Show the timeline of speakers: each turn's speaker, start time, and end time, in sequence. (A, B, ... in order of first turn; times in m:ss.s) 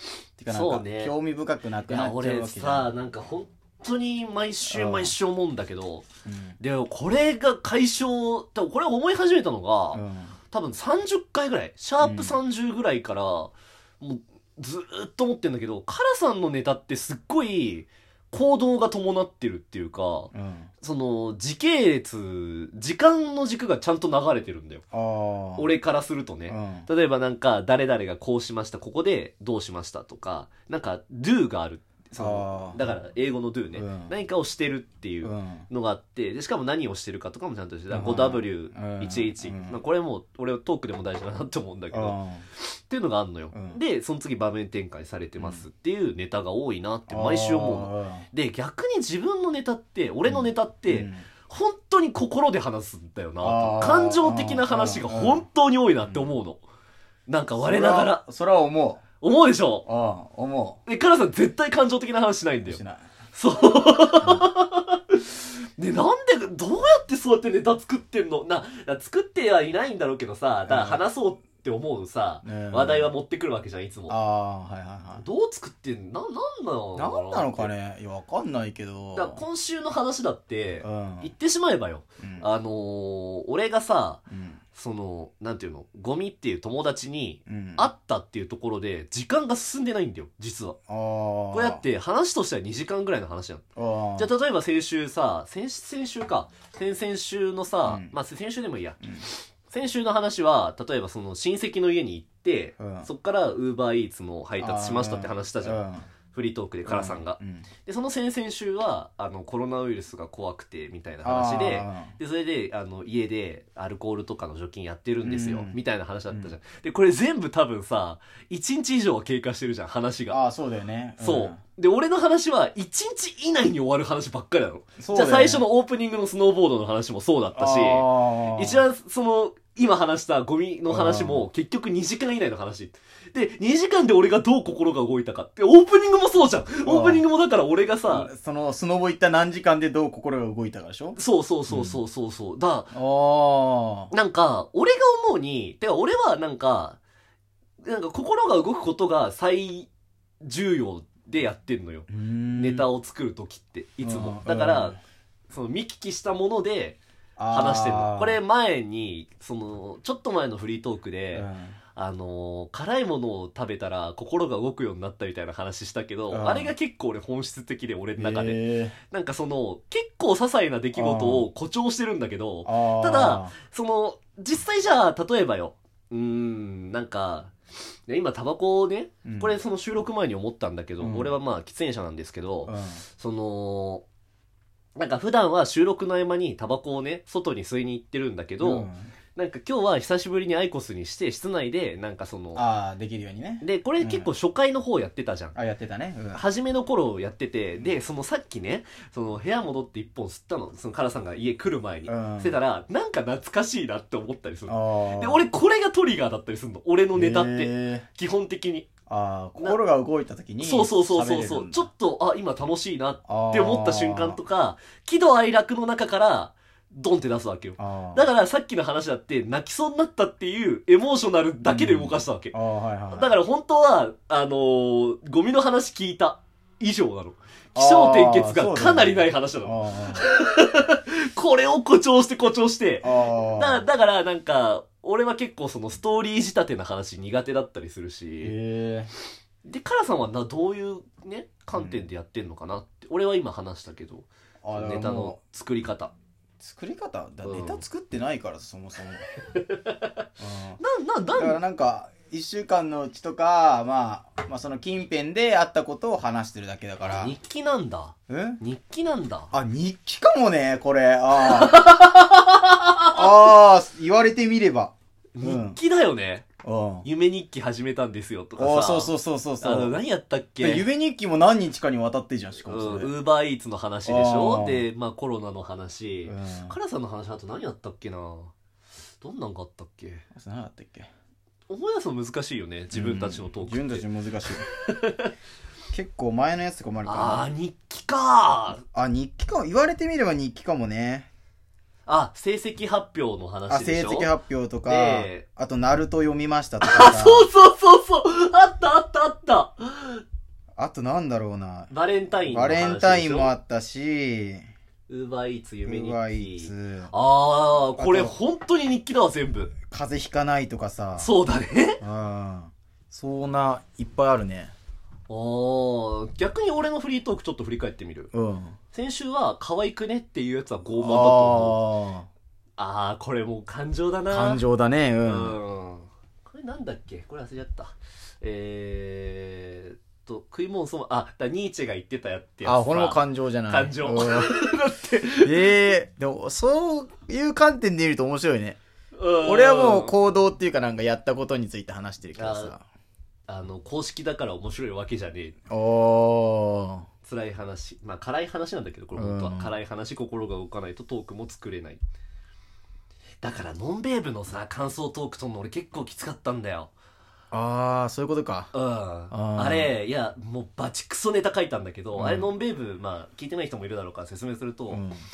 0:00.4-0:02.9 A
0:00.5-0:01.1 B
0:01.9-0:06.0 B
0:04.7-0:05.1 A
0:06.2-0:06.6 A
0:06.6-0:24.8 B
0:09.9-0:10.4 A
0:12.0-0:12.4 A
0:20.3-0:20.7 A
0:24.9-0:25.7 A
0:25.6-0:56.6 B
0:26.5-0:26.9 A
0:32.2-0:32.9 A
0:33.7-0:34.1 A
0:35.2-0:35.7 A
0:37.9-0:39.8 A
0:41.9-0:42.4 A
0:43.5-0:43.8 A
0:45.4-0:45.6 A
0:47.1-0:48.2 A
0:50.2-0:51.2 A
0:53.4-0:55.4 A
0:56.0-0:56.3 A
0:57.3-0:58.2 B
0:57.6-0:59.0 A
0:59.2-0:59.8 B
0:59.8-1:00.8 A
1:00.8-1:02.8 B
1:02.6-1:03.1 A
1:03.3-1:14.1 B
1:04.2-1:04.5 A
1:10.6-1:11.0 A
1:12.4-1:13.1 A
1:14.1-1:15.2 A
1:15.1-1:17.7 B
1:17.0-1:19.4 A
1:19.1-1:24.2 B
1:20.8-1:21.3 A
1:22.2-1:22.5 A
1:24.3-1:24.6 A
1:24.7-1:30.8 B
1:27.5-1:27.9 A
1:30.9-1:31.8 A
1:31.5-1:33.6 B
1:33.8-1:34.3 A
1:34.2-2:00.4 B
1:37.8-1:38.1 A
1:42.8-1:43.1 A
1:44.6-1:46.1 A
1:46.8-1:47.7 A
1:51.2-1:52.1 A
1:55.2-1:56.5 A
2:00.3-2:01.6 A
2:01.2-2:18.3 B
2:05.0-2:05.6 A
2:07.5-2:08.8 A
2:10.9-2:11.5 A
2:16.8-2:17.2 A
2:18.1-2:22.0 A
2:21.2-2:22.9 B
2:22.9-2:24.1 A
2:24.1-2:27.0 B
2:27.8-2:29.9 B
2:30.4-2:35.0 B
2:32.1-2:32.9 A
2:34.0-2:35.0 A
2:35.5-2:37.0 B
2:37.4-2:38.4 A
2:37.5-2:57.5 B
2:41.3-2:41.8 A
2:46.3-2:46.7 A
2:48.2-2:49.0 A
2:51.0-2:51.5 A
2:52.6-2:53.5 A
2:58.1-3:04.0 B
2:59.2-2:59.6 A
3:01.0-3:01.3 A
3:02.6-3:03.0 A
3:05.0-3:12.6 B
3:08.6-3:09.1 A
3:12.5-3:14.3 A
3:13.6-3:15.6 B
3:15.5-3:16.4 A
3:16.3-3:28.9 B
3:22.1-3:22.6 A
3:24.7-3:25.4 A
3:27.1-3:28.0 A
3:29.1-3:31.9 A
3:30.6-3:42.5 B
3:33.3-3:34.4 A
3:37.8-3:38.3 A
3:41.6-3:43.3 A
3:43.1-3:58.5 B
3:47.7-3:50.3 A
3:53.0-3:53.8 A
3:58.4-3:59.1 A
3:59.6-4:06.1 B
4:01.7-4:02.0 A
4:04.6-4:05.4 A
4:06.6-4:09.3 A
4:07.4-4:07.8 B
4:09.5-4:10.1 B
4:10.4-4:10.8 A
4:10.8-4:11.6 B
4:11.4-4:17.3 A
4:17.1-4:19.5 B
4:18.3-4:18.6 A
4:19.5-4:21.8 A
4:21.4-4:23.2 B
4:23.1-4:25.8 A
4:25.4-4:26.4 B
4:26.6-4:27.0 A
4:27.0-4:30.8 B
4:28.6-4:30.0 A
4:30.6-4:33.1 A
4:32.6-4:38.5 B
4:34.0-4:34.9 A
4:36.2-4:36.8 A
4:39.2-4:40.2 B
4:40.3-4:41.1 A
4:41.7-4:44.1 B
4:42.9-4:44.6 A
4:44.7-4:45.3 B
4:45.9-4:47.5 A
4:47.0-4:48.8 B
4:48.9-4:51.3 A
4:52.0-4:54.3 B
4:53.7-4:57.5 A
4:54.8-4:55.4 B
4:56.8-5:00.2 B
5:00.8-5:01.9 A
5:01.9-5:03.5 B
5:02.4-5:04.6 A
5:05.1-5:09.7 B
5:05.8-5:07.1 A
5:08.0-5:08.4 A
5:09.9-5:11.3 A
5:11.2-5:12.0 B
5:12.0-5:14.7 A
5:15.3-5:18.3 B
5:18.3-5:18.8 A
5:18.9-5:21.8 B
5:21.0-5:22.3 A
5:22.8-5:24.6 B
5:24.3-5:25.6 A
5:25.2-5:35.7 B
5:32.6-5:34.6 A
5:35.4-5:38.8 A
5:39.2-5:40.1 B
5:39.4-5:42.8 A
5:42.4-5:42.7 B
5:43.5-5:45.5 B
5:45.7-5:47.0 A
5:47.2-5:52.0 B
5:49.2-5:49.7 A
5:53.4-5:56.9 B
5:57.5-5:58.7 A
5:58.7-6:05.0 B
5:59.3-5:59.9 A
6:02.1-6:02.5 A
6:04.9-6:05.2 A